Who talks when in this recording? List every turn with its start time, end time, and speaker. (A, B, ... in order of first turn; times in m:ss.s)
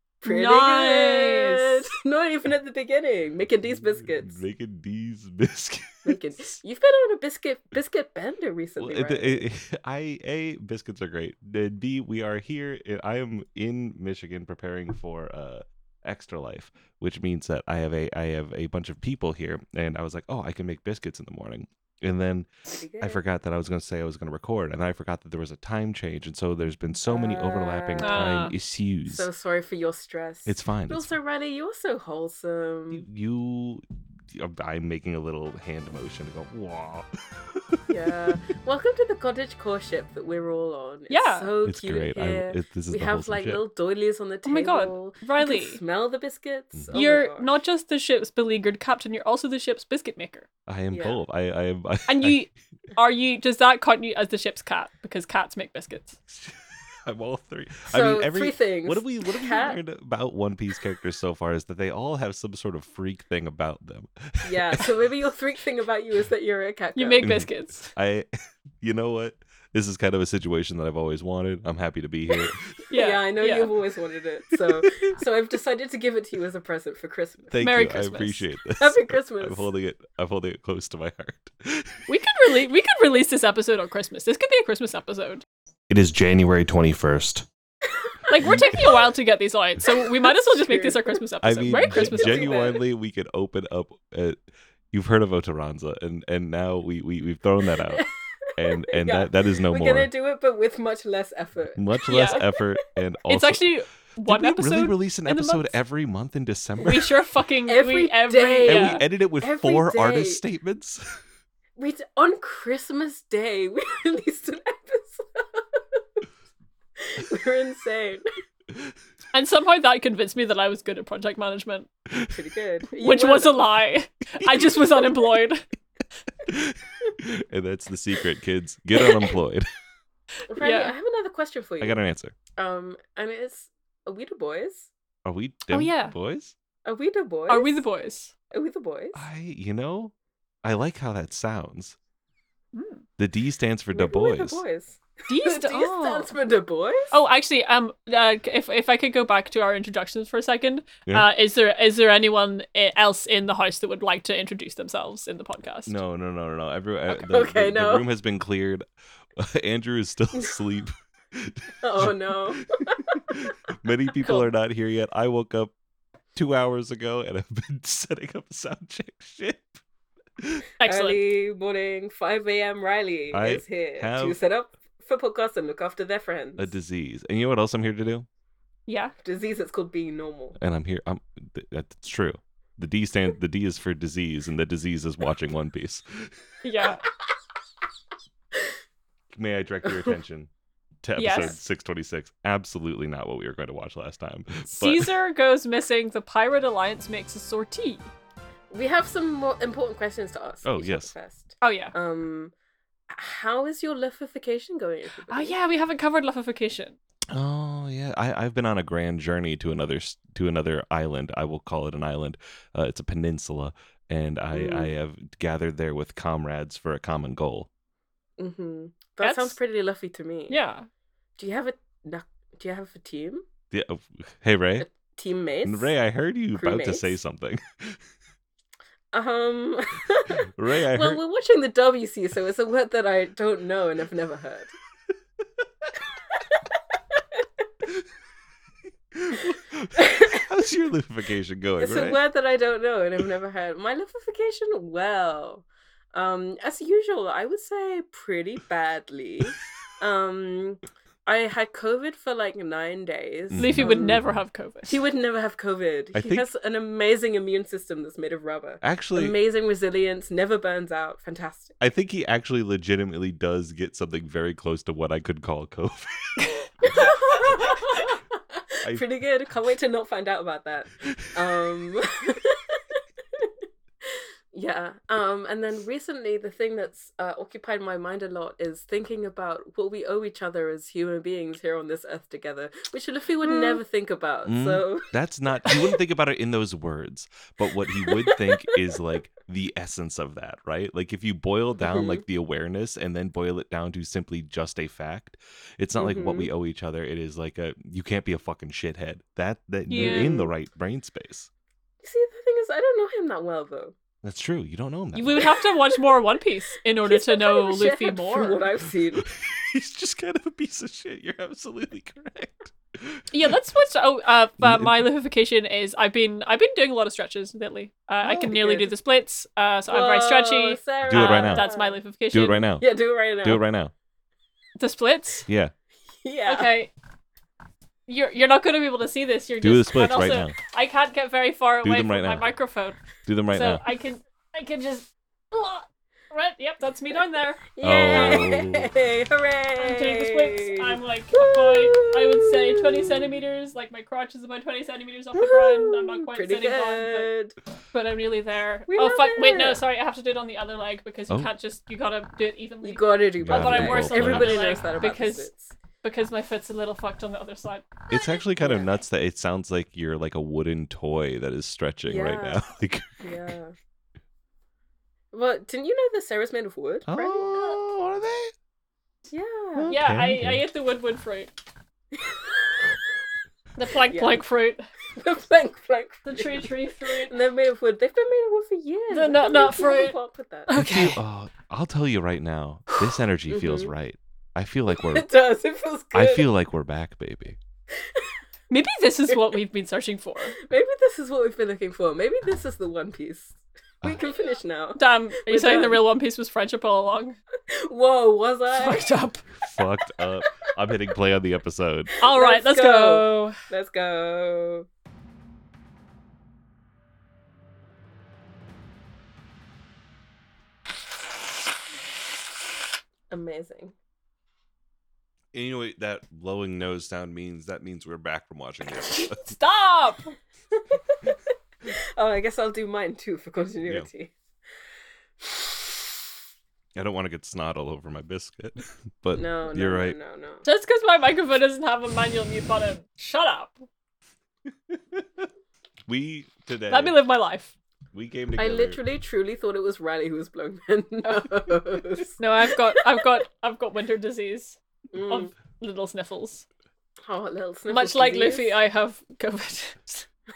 0:00.2-0:04.4 A
0:00.2-0:01.9 B
0:03.7-0:06.2 C
0:06.0-0:09.5 A
0:08.8-0:29.3 C
0:22.7-0:23.2 A
0:27.1-0:28.4 A
0:28.0-0:28.5 B
0:29.1-0:33.1 A
0:30.5-0:31.1 C
0:32.9-0:38.3 C
0:37.9-0:47.5 A
0:41.1-0:41.5 B
0:41.6-0:43.6 C
0:44.5-0:45.8 B
0:46.7-0:47.0 C
0:46.9-0:50.5 B
0:50.7-0:52.4 C
0:50.9-0:51.2 A
0:52.1-0:56.2 B
0:56.3-1:04.9 C
0:57.9-0:59.8 A
1:04.4-1:07.3 A
1:07.0-1:07.9 B
1:07.2-1:12.8 C
1:12.9-1:13.7 B
1:12.9-1:17.6 A
1:14.7-1:15.0 C
1:17.5-1:22.1 C
1:17.6-1:18.4 B
1:18.8-1:19.7 A
1:22.1-1:25.4 B
1:25.9-1:27.5 C
1:28.3-1:32.5 B
1:28.4-1:28.6 A
1:28.4-1:29.0 C
1:30.2-1:31.2 A
1:31.4-1:34.4 C
1:31.7-1:32.8 A
1:34.9-1:38.0 C
1:37.7-1:42.7 A
1:38.6-1:40.1 C
1:41.8-1:43.7 C
1:42.1-1:42.4 B
1:43.3-1:45.8 B
1:44.2-1:47.1 C
1:46.8-1:49.0 B
1:47.7-1:50.4 A
1:48.7-1:51.2 C
1:51.8-1:56.0 A
1:57.0-1:58.2 A
1:59.3-2:01.9 B
2:02.1-2:02.4 C
2:02.3-2:03.6 A
2:03.0-2:05.6 B
2:06.5-2:09.7 C
2:09.0-2:09.4 A
2:10.5-2:12.0 A
2:10.6-2:10.9 B
2:11.8-2:12.4 C
2:12.6-2:14.9 A
2:15.2-2:16.5 C
2:15.7-2:16.2 B
2:16.8-2:17.8 A
2:17.5-2:18.3 B
2:18.5-2:19.3 A
2:19.1-2:20.1 C
2:20.6-2:22.0 C
2:22.7-2:23.0 B
2:23.2-2:24.6 C
2:23.9-2:27.1 A
2:25.3-2:26.3 B
2:27.1-2:36.0 B
2:35.9-2:38.8 C
2:37.1-2:38.1 A
2:39.4-2:45.7 C
2:41.8-2:43.4 A
2:46.4-2:49.8 C
2:50.4-2:50.6 C
2:50.8-2:51.2 B
2:50.8-2:56.7 A
2:53.3-2:54.4 C
2:56.6-2:58.3 C
2:58.9-2:59.1 B
2:59.2-3:00.6 A
3:00.6-3:06.3 C
3:06.6-3:07.0 B
3:09.3-3:10.5 C
3:09.8-3:10.2 A
3:11.0-3:15.1 C
3:11.2-3:11.6 B
3:14.7-3:18.1 B
3:18.7-3:22.5 A
3:20.6-3:21.1 C
3:21.6-3:21.9 B
3:23.1-3:25.6 A
3:25.3-3:27.0 B
3:27.3-3:37.7 C
3:34.5-3:34.9 A
3:38.4-3:40.6 A
3:39.2-3:39.6 B
3:40.5-3:40.9 B
3:41.4-3:43.4 A
3:43.7-3:44.9 C
3:44.8-3:46.0 A
3:45.6-3:48.0 C
3:46.6-3:47.2 A
3:49.1-3:54.7 A
3:50.5-3:51.2 C
3:59.1-4:02.2 C
4:00.0-4:00.4 A
4:01.8-4:14.2 A
4:13.5-4:14.2 C
4:13.6-4:15.0 B
4:14.9-4:21.8 A
4:16.1-4:16.5 C
4:18.8-4:19.4 C
4:21.8-4:27.1 C
4:26.9-4:27.3 B
4:26.9-4:33.5 A
4:34.5-4:45.1 A
4:44.5-5:01.5 C
4:48.0-4:48.7 A
4:51.8-4:52.2 A
4:56.0-4:56.5 A
4:59.9-5:00.3 B
4:59.9-5:00.5 A
5:02.0-5:04.0 A
5:04.2-5:05.6 C
5:05.1-5:08.6 B
5:07.0-5:09.2 A
5:09.2-5:13.3 C
5:13.3-5:22.7 B
5:14.6-5:15.1 C
5:18.4-5:18.9 A
5:19.9-5:22.0 A
5:21.1-5:21.7 C
5:22.3-5:22.8 C
5:22.8-5:23.6 A
5:23.4-5:23.9 C
5:24.8-5:25.5 B
5:25.5-5:25.7 C
5:26.2-5:26.7 A
5:26.5-5:26.9 B
5:28.1-5:33.0 B
5:29.6-5:30.6 C
5:31.8-5:32.5 C
5:33.3-5:33.8 C
5:33.5-5:38.5 B
5:37.7-5:43.4 A
5:37.8-5:38.9 C
5:39.8-5:47.3 B
5:45.4-5:47.6 A
5:47.9-5:55.5 B
5:48.9-5:49.8 A
5:52.8-5:55.8 A
5:53.4-5:54.8 C
5:56.0-5:58.1 B
5:58.1-6:03.3 C
5:58.6-5:58.9 A
6:02.1-6:02.6 A
6:03.2-6:03.7 A
6:05.3-6:07.8 A
6:07.1-6:08.5 C
6:09.3-6:10.0 A
6:09.8-6:10.6 C
6:09.9-6:11.5 B
6:12.1-6:13.0 A
6:13.8-6:14.9 B
6:14.1-6:14.4 A
6:15.2-6:20.7 A
6:16.2-6:17.3 B
6:19.1-6:20.2 B
6:20.7-6:21.2 B
6:20.7-6:25.3 C
6:23.5-6:23.9 A
6:24.9-6:26.5 A
6:26.1-6:27.6 C
6:28.0-6:28.4 A
6:28.7-6:30.6 B
6:30.6-6:36.0 A
6:35.0-6:37.4 B
6:37.7-6:39.1 A
6:38.7-6:39.4 B
6:39.6-6:42.1 C
6:42.2-6:44.9 A
6:42.2-6:43.6 B
6:53.3-6:53.9 A
6:55.5-6:59.5 C
6:59.0-7:00.3 B
7:00.7-7:04.3 A
7:05.4-7:06.0 A
7:07.0-7:10.2 C
7:09.3-7:10.6 A
7:10.6-7:13.9 B
7:14.9-7:15.5 C
7:16.1-7:17.2 C
7:16.9-7:17.7 B
7:18.1-7:19.0 C
7:18.6-7:22.4 A
7:21.2-7:21.5 B
7:22.4-7:26.7 B
7:22.9-7:23.3 A
7:25.1-7:25.5 A
7:27.3-7:28.7 A
7:27.9-7:30.3 B